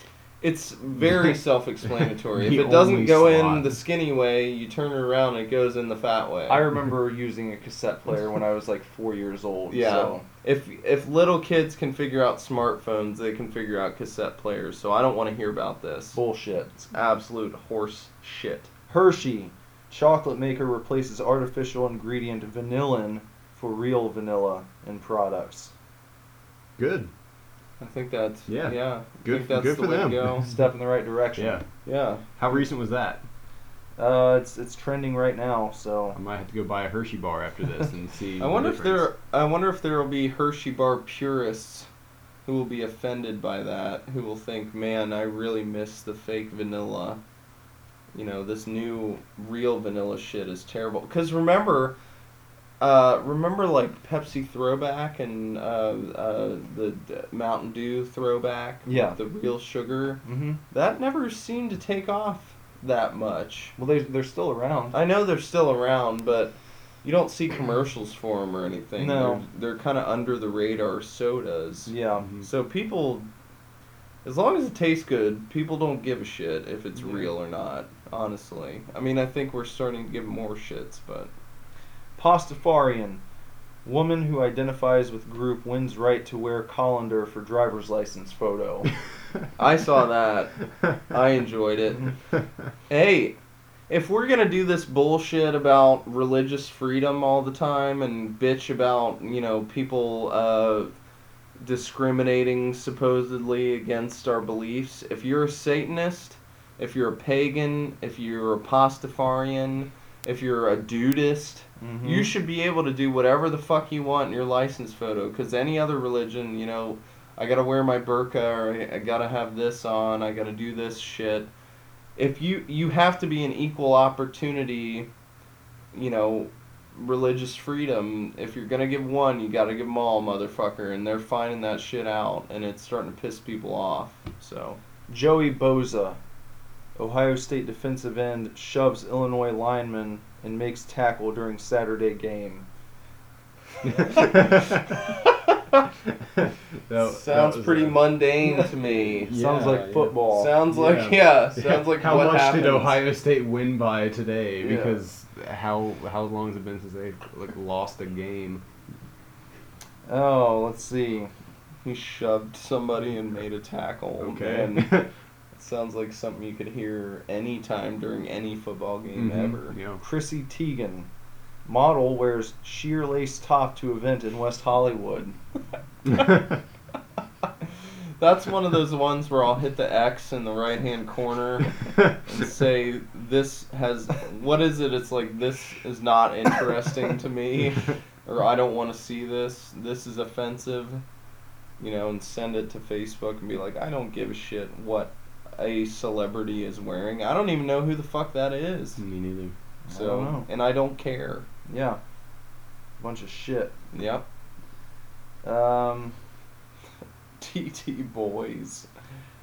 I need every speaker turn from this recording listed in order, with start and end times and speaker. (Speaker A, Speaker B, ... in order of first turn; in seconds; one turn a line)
Speaker A: 0.4-6.6
Speaker B: 2.4-3.7
Speaker C: 6.5-10.2
Speaker A: 9.7-16.2
Speaker C: 16.1-16.7
Speaker A: 16.7-18.7
Speaker C: 18.9-25.7
Speaker B: 26.8-27.1
Speaker A: 27.8-30.5
Speaker B: 28.5-30.4
Speaker C: 30.4-31.6
Speaker B: 31.4-31.7
Speaker A: 31.9-32.3
Speaker B: 32.4-33.3
Speaker C: 34.0-36.2
Speaker B: 36.1-39.1
Speaker A: 38.4-41.9
Speaker A: 42.5-47.2
Speaker A: 48.1-52.0
Speaker A: 52.8-63.8
Speaker C: 58.9-59.2
Speaker C: 60.2-60.6
Speaker C: 63.8-65.0
Speaker A: 64.9-73.3
Speaker C: 69.0-69.5
Speaker C: 71.9-72.3
Speaker B: 72.2-72.5
Speaker A: 74.2-81.3
Speaker C: 77.0-77.3
Speaker C: 82.2-83.2
Speaker C: 83.8-88.9
Speaker A: 89.6-92.2
Speaker A: 92.9-93.4
Speaker A: 93.9-100.9
Speaker A: 101.6-121.5
Speaker C: 111.8-112.3
Speaker A: 122.2-125.1
Speaker A: 125.9-134.8
Speaker C: 135.1-136.2
Speaker C: 136.9-142.7
Speaker B: 144.2-144.6
Speaker B: 146.4-148.0
Speaker A: 146.9-149.4
Speaker B: 149.0-150.2
Speaker C: 149.3-150.5
Speaker A: 150.3-153.0
Speaker B: 150.7-158.6
Speaker C: 154.6-155.0
Speaker C: 160.1-161.3
Speaker A: 161.8-169.8
Speaker B: 164.2-165.1
Speaker B: 169.2-170.0
Speaker C: 170.0-171.1
Speaker C: 171.7-175.4
Speaker A: 178.2-191.0
Speaker A: 191.8-199.0
Speaker B: 199.0-199.5
Speaker C: 199.9-200.5
Speaker A: 199.9-201.5
Speaker C: 201.7-202.0
Speaker C: 203.0-203.7
Speaker A: 203.9-204.2
Speaker C: 205.4-206.2
Speaker A: 207.4-208.9